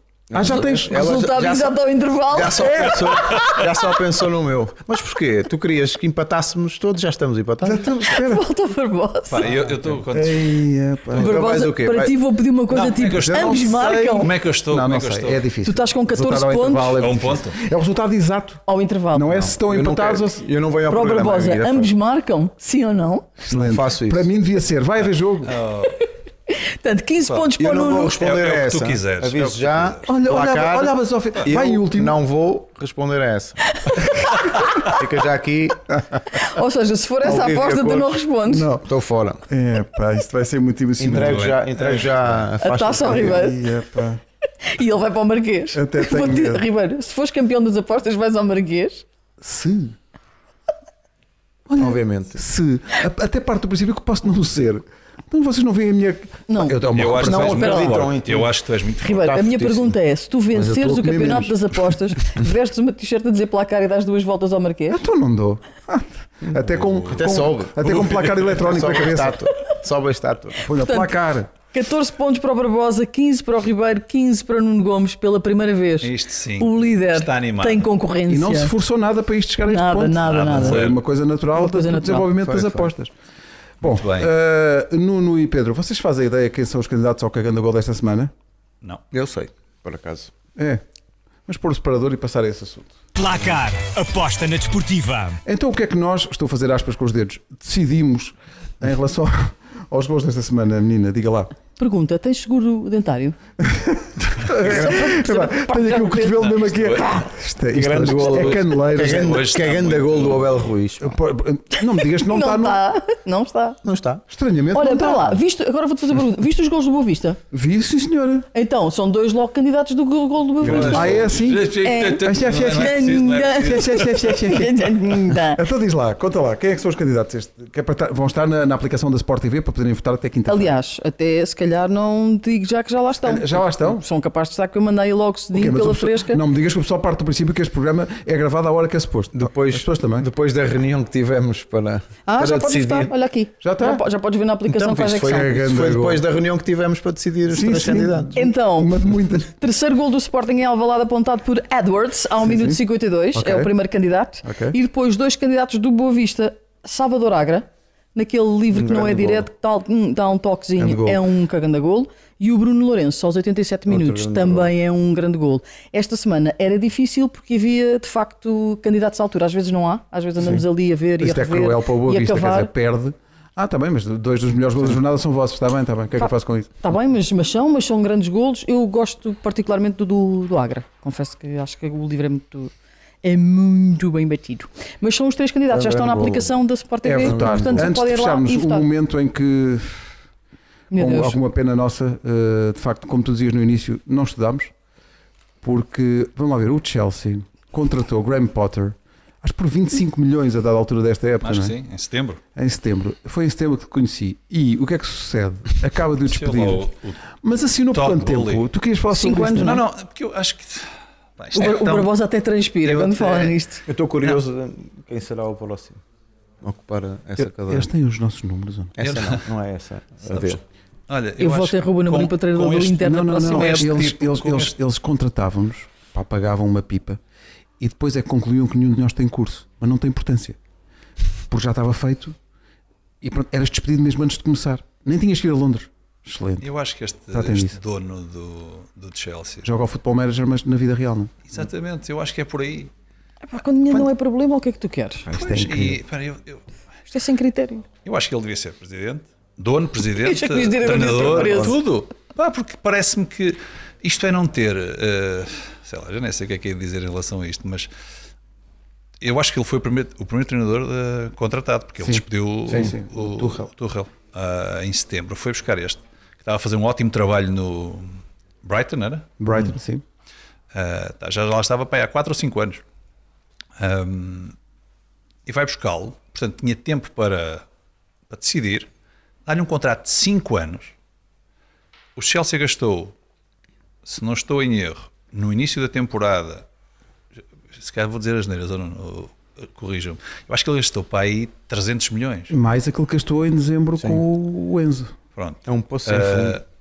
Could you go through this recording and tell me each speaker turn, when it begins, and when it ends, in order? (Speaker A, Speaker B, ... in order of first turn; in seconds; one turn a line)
Speaker A: 0.3-8.0
Speaker B: 0.3-1.1
Speaker C: 0.4-3.6
Speaker B: 7.6-8.4
Speaker C: 8.0-9.5
Speaker D: 9.3-10.5
Speaker A: 9.4-10.0
Speaker B: 10.1-11.3
Speaker C: 11.2-14.3
Speaker A: 11.2-12.2
Speaker D: 12.7-15.4
Speaker B: 13.1-20.4
Speaker C: 15.6-17.0
Speaker D: 17.0-17.6
Speaker C: 18.7-19.5
Speaker A: 19.4-21.9
Speaker C: 20.9-23.3
Speaker B: 23.4-25.6
Speaker A: 23.5-24.3
Speaker D: 25.4-26.0
Speaker C: 25.9-28.1
Speaker D: 27.2-27.5
Speaker A: 27.6-33.8
Speaker D: 28.1-30.0
Speaker B: 30.1-32.2
Speaker C: 33.9-34.8
Speaker A: 34.8-35.8
Speaker C: 36.3-38.7
Speaker A: 37.2-38.2
Speaker B: 38.5-38.9
Speaker A: 38.8-39.4
Speaker B: 39.5-41.8
Speaker A: 41.0-43.5
Speaker D: 41.1-42.4
Speaker C: 42.6-43.6
Speaker B: 43.0-44.2
Speaker C: 44.6-49.0
Speaker B: 45.7-46.6
Speaker B: 49.4-49.9
Speaker B: 51.7-57.6
Speaker A: 51.8-52.4
Speaker C: 56.5-58.1
Speaker D: 56.9-59.4
Speaker A: 57.5-58.5
Speaker C: 59.0-65.0
Speaker A: 59.1-60.0
Speaker B: 60.5-61.9
Speaker B: 64.9-69.4
Speaker D: 66.7-68.4
Speaker A: 67.1-70.6
Speaker B: 70.6-71.5
Speaker C: 70.8-71.2
Speaker C: 71.7-78.7
Speaker D: 76.0-77.8
Speaker B: 78.3-83.1
Speaker C: 79.7-80.8
Speaker D: 80.2-81.0
Speaker C: 81.5-82.3
Speaker A: 82.4-82.9
Speaker D: 83.8-84.3
Speaker B: 83.8-88.3
Speaker A: 89.1-90.3
Speaker B: 90.5-90.8
Speaker B: 91.5-92.9
Speaker E: 93.1-95.4
Speaker B: 95.5-101.5
Speaker C: 101.8-103.3
Speaker B: 103.6-109.4
Speaker A: 104.6-105.1
Speaker C: 104.6-107.2
Speaker D: 106.7-107.0
Speaker A: 107.7-111.2
Speaker D: 109.0-110.7
Speaker B: 111.0-112.8
Speaker C: 112.2-113.8
Speaker A: 113.8-114.2
Speaker B: 114.3-115.4
Speaker C: 114.7-117.4
Speaker B: 117.5-118.5
Speaker C: 118.5-121.2
Speaker A: 120.6-121.4
Speaker D: 120.6-124.1
Speaker B: 120.8-130.7
Speaker C: 121.7-125.6
Speaker C: 130.5-136.4
Speaker B: 133.2-134.0
Speaker B: 135.5-140.3
Speaker A: 139.3-143.1
Speaker C: 142.3-145.5
Speaker B: 143.6-144.0
Speaker A: 144.7-148.5
Speaker B: 145.3-146.2
Speaker B: 147.5-149.5
Speaker C: 148.3-172.7
Speaker B: 152.4-152.8
Speaker B: 153.3-153.7
Speaker B: 154.4-154.8
Speaker A: 158.7-159.5
Speaker B: 160.8-161.2
Speaker A: 163.8-164.7
Speaker B: 170.4-170.7
Speaker B: 171.2-176.8
Speaker C: 176.8-182.7
Speaker C: 183.2-188.9
Speaker A: 185.7-186.6
Speaker B: 187.0-190.1
Speaker A: 187.2-187.9
Speaker C: 190.9-191.4
Speaker B: 190.9-194.7
Speaker B: 195.6-201.8
Speaker D: 201.4-202.4
Speaker B: 202.6-206.9
Speaker D: 206.2-207.2
Speaker B: 207.4-209.8
Speaker D: 207.9-208.7
Speaker C: 209.1-209.8
Speaker D: 209.5-212.1
Speaker C: 211.5-213.8
Speaker D: 212.8-213.6
Speaker A: 213.8-216.0
Speaker A: 216.6-217.9
Speaker B: 217.4-218.9
Speaker A: 218.9-220.6
Speaker D: 219.0-219.5
Speaker D: 220.2-224.7
Speaker C: 221.4-223.9
Speaker B: 223.0-227.2
Speaker B: 227.8-230.6
Speaker B: 231.5-232.3
Speaker B: 233.2-236.7
Speaker D: 236.6-239.7
Speaker B: 237.3-237.8
Speaker B: 239.6-241.3
Speaker D: 241.5-242.9
Speaker C: 243.4-245.2
Speaker B: 245.2-246.0
Speaker D: 245.3-246.6
Speaker C: 247.1-247.8
Speaker D: 248.0-257.9
Speaker C: 250.1-251.8
Speaker A: 251.1-251.7
Speaker D: 259.2-269.7
Speaker B: 262.0-263.7
Speaker B: 269.4-270.0
Speaker D: 270.7-272.8
Speaker D: 273.8-274.5
Speaker D: 275.4-277.6
Speaker D: 278.3-278.9
Speaker D: 279.4-280.9
Speaker D: 282.1-283.1
Speaker D: 284.0-286.6
Speaker D: 287.7-292.5
Speaker B: 292.5-295.1
Speaker A: 294.0-294.2
Speaker D: 295.4-296.6
Speaker A: 295.6-296.6